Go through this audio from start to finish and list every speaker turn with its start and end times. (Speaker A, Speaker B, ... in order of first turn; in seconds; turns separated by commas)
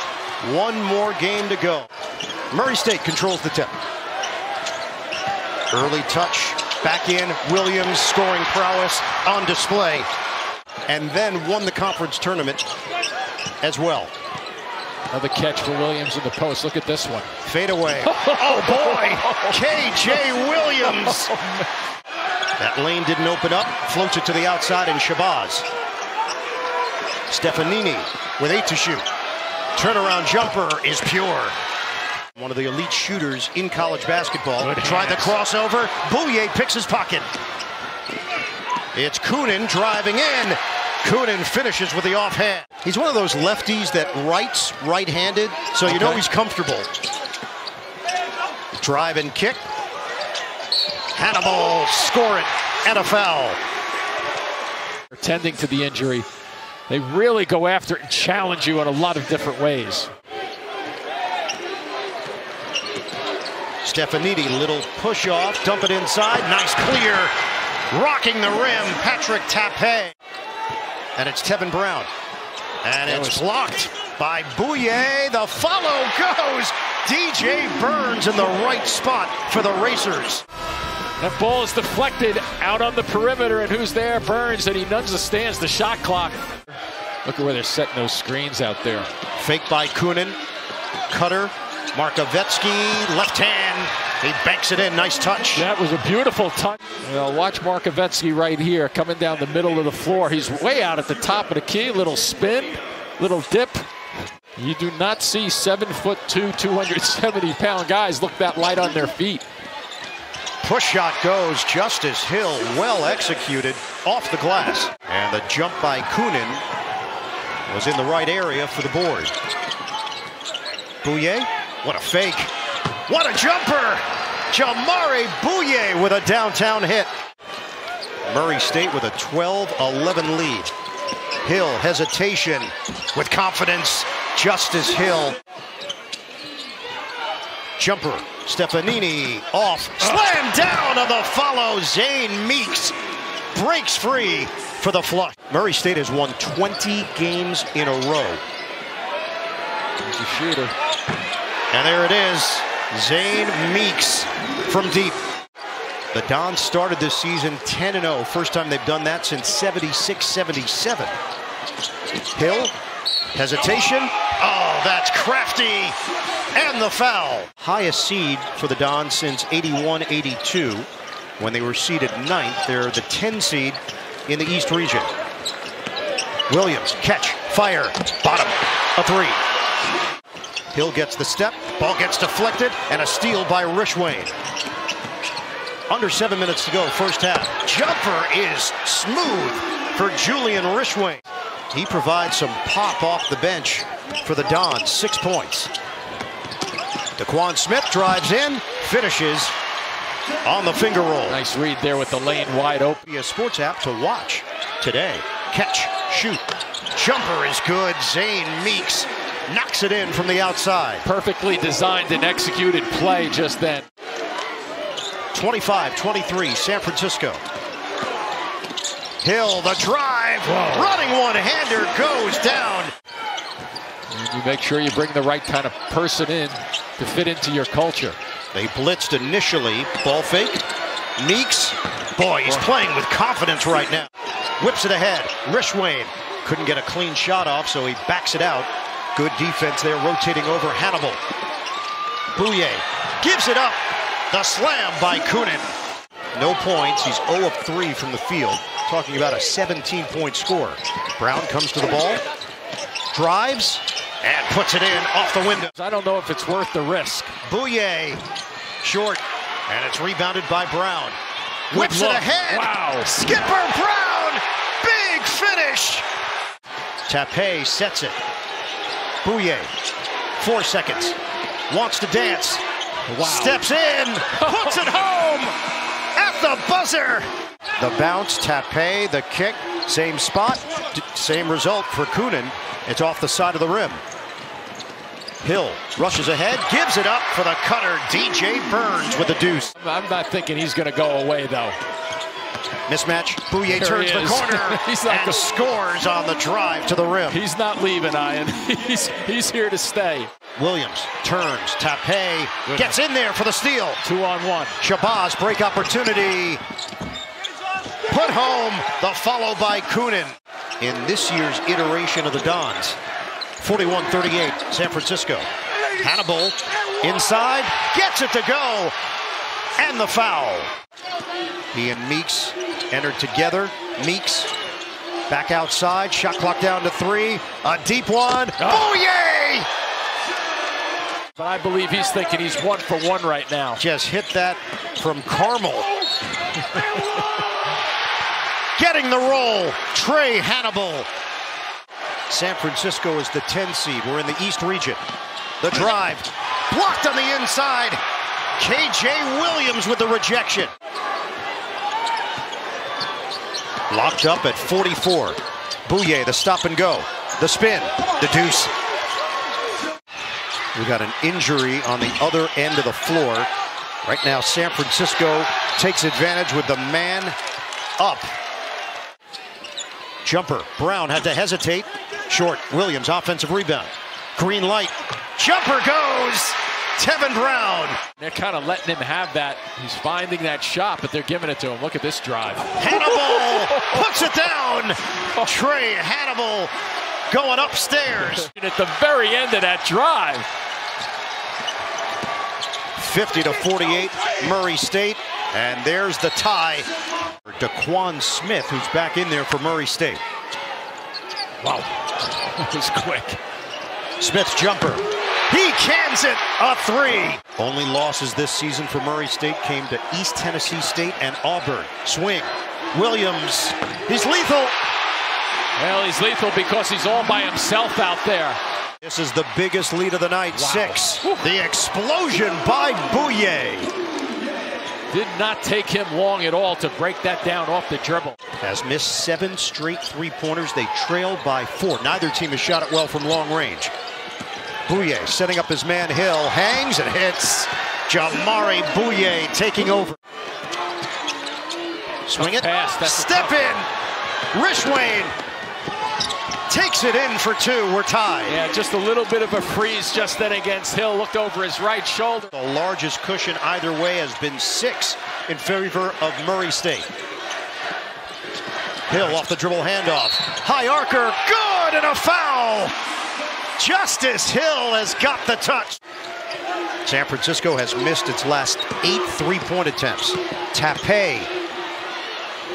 Speaker A: 0.4-1.9, Speaker A: 2.5-3.8, Speaker A: 5.7-10.1, Speaker A: 10.9-12.6, Speaker A: 13.6-14.1, Speaker B: 15.1-17.3, Speaker A: 17.4-21.4, Speaker B: 18.0-19.6, Speaker B: 20.8-21.6, Speaker A: 22.6-25.6, Speaker A: 27.3-29.0, Speaker A: 29.8-31.5, Speaker A: 32.3-37.3, Speaker B: 34.6-35.4, Speaker A: 38.9-46.9, Speaker B: 45.9-46.2, Speaker A: 48.8-49.6, Speaker A: 51.1-53.6, Speaker B: 55.1-56.3, Speaker B: 56.9-60.1, Speaker A: 63.8-67.3, Speaker A: 67.9-70.1, Speaker A: 71.2-72.1, Speaker A: 72.8-80.4, Speaker B: 73.0-73.4, Speaker B: 81.2-86.4, Speaker B: 87.2-89.1, Speaker A: 89.4-90.4, Speaker A: 91.1-95.7, Speaker B: 95.5-103.8, Speaker B: 104.6-109.4, Speaker A: 110.6-116.6, Speaker A: 117.7-119.3, Speaker A: 121.0-122.5, Speaker A: 123.1-127.1, Speaker A: 128.2-130.7, Speaker A: 131.4-135.4, Speaker A: 137.8-142.9, Speaker A: 143.5-148.4, Speaker B: 150.0-150.7, Speaker A: 151.7-155.2, Speaker A: 156.1-161.1, Speaker A: 162.3-162.7, Speaker A: 163.3-165.9, Speaker A: 166.5-170.9, Speaker A: 171.4-175.1, Speaker A: 176.5-179.4, Speaker A: 180.7-184.3, Speaker A: 185.9-195.7, Speaker A: 197.2-199.5, Speaker A: 200.4-201.4, Speaker B: 201.3-203.0, Speaker A: 203.0-211.0, Speaker B: 211.0-213.8, Speaker A: 215.3-217.4, Speaker A: 219.2-222.9, Speaker B: 220.4-221.0, Speaker B: 224.1-228.2, Speaker A: 228.5-230.6, Speaker A: 231.2-241.2, Speaker B: 232.4-232.8, Speaker A: 242.3-243.8, Speaker A: 244.3-245.7, Speaker A: 246.3-252.2, Speaker A: 253.1-255.7, Speaker B: 255.8-257.4, Speaker A: 257.4-258.2, Speaker A: 258.8-261.2, Speaker B: 261.7-263.3, Speaker A: 261.7-266.0, Speaker A: 267.1-268.2, Speaker A: 269.2-269.7, Speaker A: 270.4-271.2, Speaker A: 271.7-272.6, Speaker B: 273.1-273.6, Speaker A: 273.2-275.5, Speaker B: 274.3-275.1, Speaker A: 276.2-284.0, Speaker A: 285.4-289.7, Speaker B: 289.8-291.8, Speaker A: 292.9-297.4, Speaker B: 293.7-295.6, Speaker B: 297.3-300.3, Speaker A: 300.6-304.0, Speaker B: 302.6-302.9, Speaker B: 304.0-304.8, Speaker A: 304.8-306.6, Speaker A: 308.1-313.0, Speaker A: 313.6-318.9, Speaker A: 319.8-320.7, Speaker A: 321.7-324.5, Speaker A: 325.3-329.7, Speaker B: 328.6-328.9, Speaker B: 331.4-333.8, Speaker A: 333.8-335.9, Speaker B: 336.6-337.0, Speaker A: 338.8-341.1, Speaker A: 342.3-345.0, Speaker A: 345.6-348.0, Speaker A: 348.6-350.7, Speaker A: 353.9-358.7, Speaker A: 360.7-363.5, Speaker A: 364.0-367.3, Speaker A: 368.0-368.3, Speaker A: 370.2-378.0, Speaker B: 378.2-384.5, Speaker A: 382.8-386.7, Speaker A: 387.3-388.5, Speaker B: 388.2-390.5, Speaker A: 392.9-396.9, Speaker A: 397.4-400.2, Speaker B: 401.6-403.4, Speaker A: 404.2-414.8, Speaker B: 415.8-418.6, Speaker A: 419.0-423.9, Speaker B: 420.5-421.5, Speaker B: 425.1-428.4, Speaker A: 428.6-433.9, Speaker A: 434.9-440.2, Speaker A: 442.3-443.9, Speaker B: 442.4-443.8, Speaker A: 444.5-445.3, Speaker A: 446.7-448.6, Speaker B: 448.4-452.5, Speaker A: 452.5-457.1, Speaker A: 459.1-462.9, Speaker A: 463.8-466.0, Speaker A: 467.0-471.5